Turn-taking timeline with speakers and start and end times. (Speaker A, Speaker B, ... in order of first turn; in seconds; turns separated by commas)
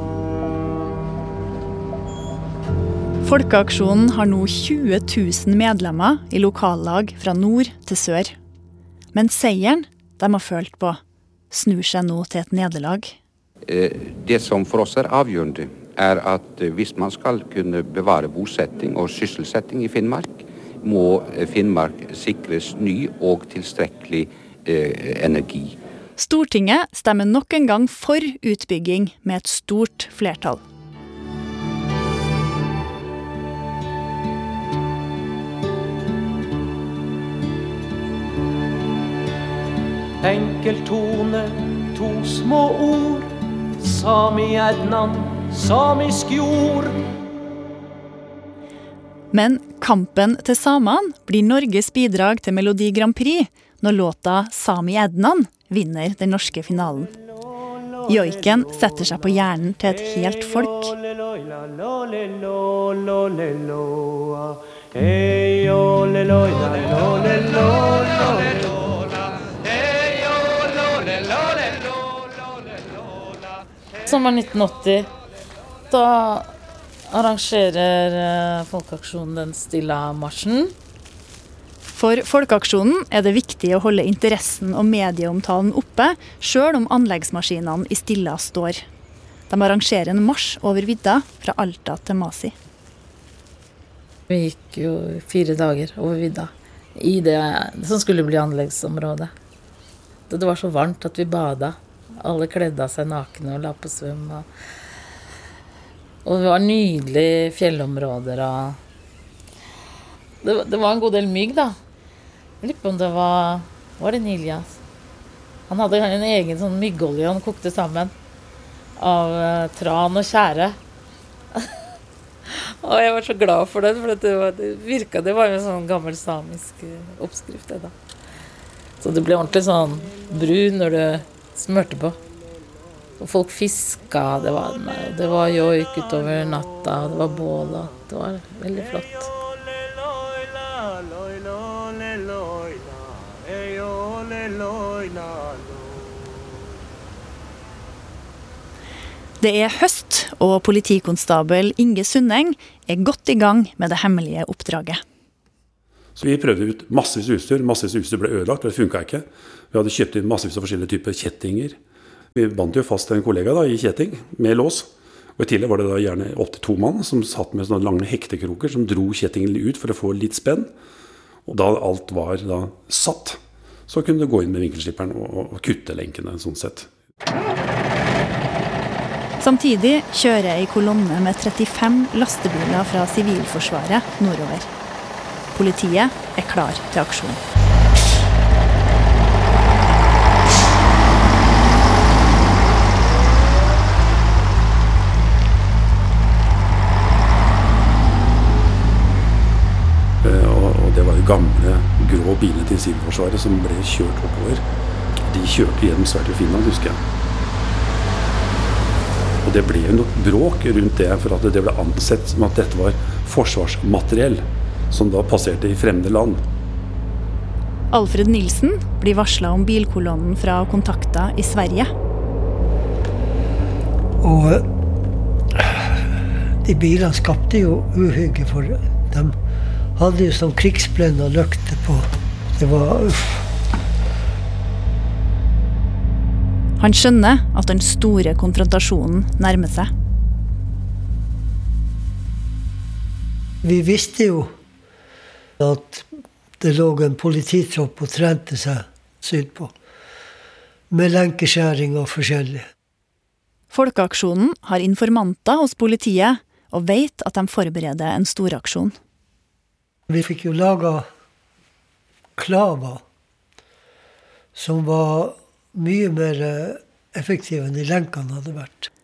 Speaker A: 3.2-8.3, Speaker A: 9.1-13.2, Speaker B: 13.7-25.8, Speaker A: 26.2-30.6, Speaker C: 40.2-47.0, Speaker A: 49.3-57.1, Speaker A: 58.0-61.0, Speaker D: 74.0-75.1, Speaker D: 75.9-76.5, Speaker D: 77.1-80.7, Speaker A: 81.8-88.8, Speaker A: 89.5-92.5, Speaker D: 94.3-99.3, Speaker D: 100.3-104.4, Speaker D: 106.2-108.8, Speaker D: 110.4-111.8, Speaker D: 112.6-114.8, Speaker D: 115.7-118.1, Speaker D: 119.0-120.8, Speaker D: 122.5-127.9, Speaker D: 129.0-132.2, Speaker D: 133.2-139.3, Speaker A: 149.4-155.0, Speaker E: 156.2-161.8, Speaker E: 162.3-170.7, Speaker E: 171.4-176.9, Speaker A: 179.4-184.7, Speaker A: 185.5-187.4, Speaker E: 200.2-204.6, Speaker E: 205.3-207.0, Speaker E: 209.4-216.4, Speaker A: 217.9-221.9, Speaker F: 224.2-224.7, Speaker F: 225.6-226.0, Speaker F: 226.6-229.3, Speaker F: 230.0-233.5, Speaker A: 236.8-239.9, Speaker F: 243.6-244.5, Speaker F: 245.6-246.1, Speaker F: 246.6-249.7, Speaker F: 250.9-252.6, Speaker A: 253.7-258.9, Speaker F: 260.1-261.1, Speaker F: 262.4-263.0, Speaker F: 264.5-268.9